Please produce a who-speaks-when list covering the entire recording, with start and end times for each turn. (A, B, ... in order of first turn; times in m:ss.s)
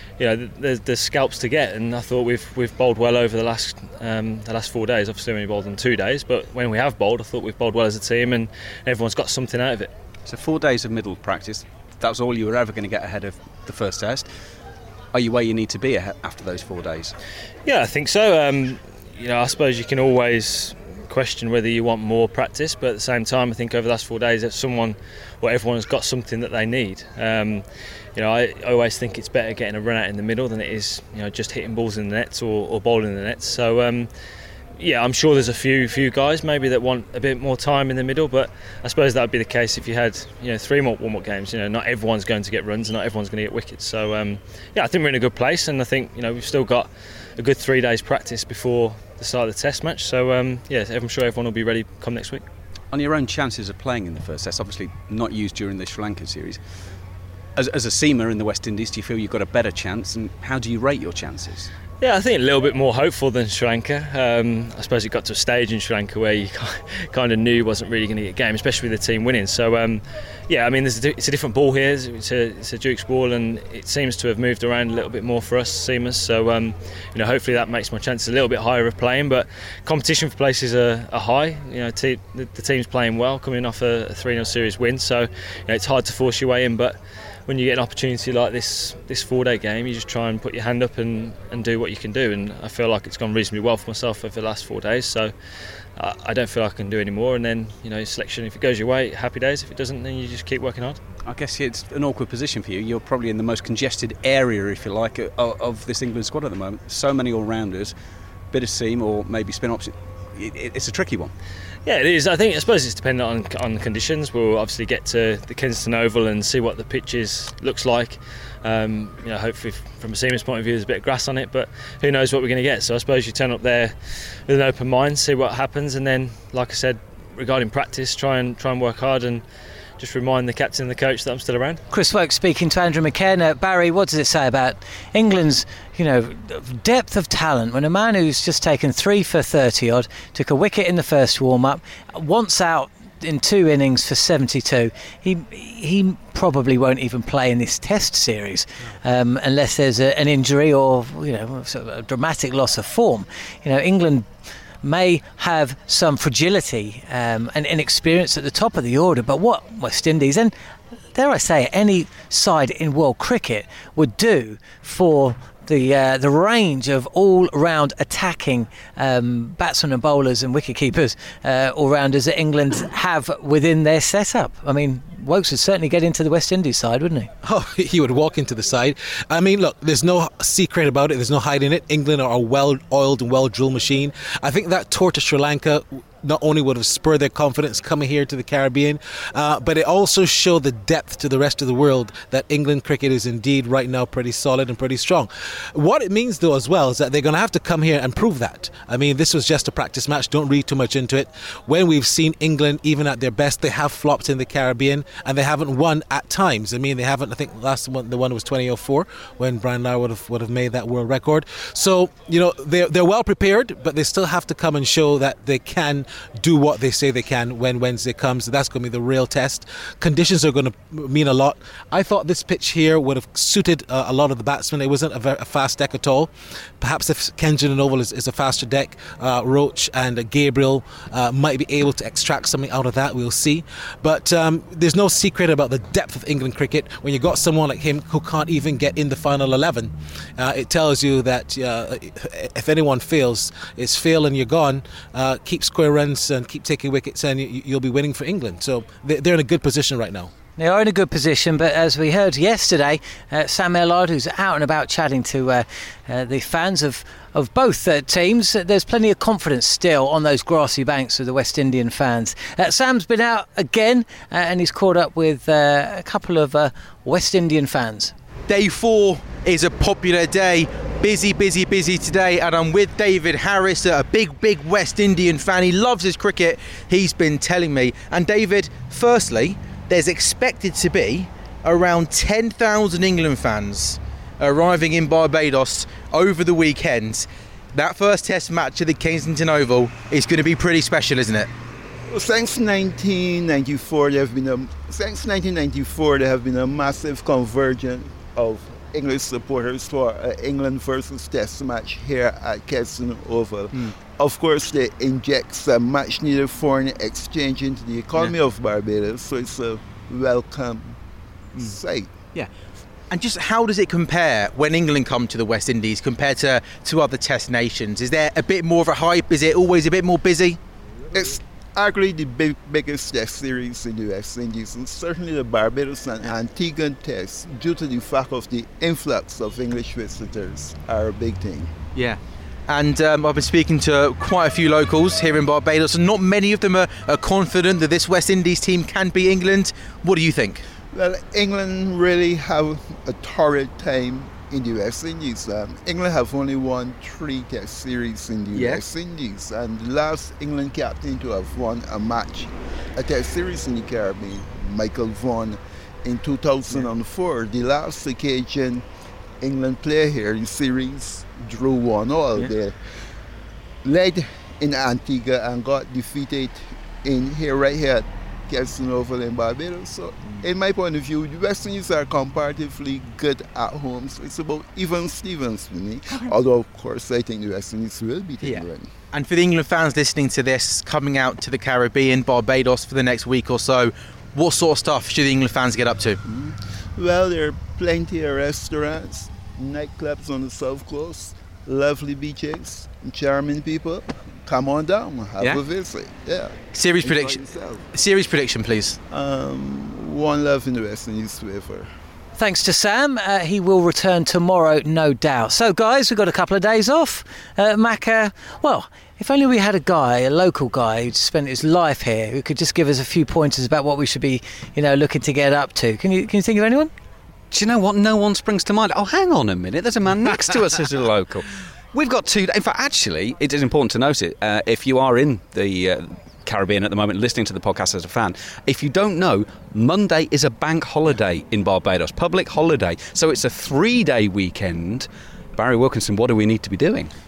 0:00.2-0:09.9 A
0:10.2-0:14.3 B
0:15.1-0:17.1 B
0:17.6-0:27.6 A
0:28.2-0:34.1 A
0:34.8-0:52.4 A
0:52.9-0:56.6 B
0:57.6-1:01.7 B
1:02.0-1:35.3 A
1:36.0-1:41.0 A
1:41.2-1:47.9 B
1:48.5-1:51.3 B
1:51.8-2:03.9 A
2:04.5-2:09.4 A
2:10.0-2:11.8 A
2:11.9-2:34.3 C
2:34.8-2:40.5 C
2:41.1-2:57.3 C
2:57.4-4:10.3 D
4:10.6-4:28.1 C
4:28.5-4:51.5 E
4:52.1-5:11.0 F
5:11.5-5:12.1 F
5:13.1-5:20.6 E
5:21.1-5:31.7 F
5:31.9-5:40.6 E
5:40.9-5:58.8 F
5:48.5-5:48.8 E
5:59.4-6:02.7 F
6:03.8-6:18.9 F
6:18.4-6:26.2 E
6:26.2-6:37.9 F
6:36.7-6:39.0 E
6:39.1-6:41.9 F
6:42.3-6:56.9 C
6:57.5-7:17.1 B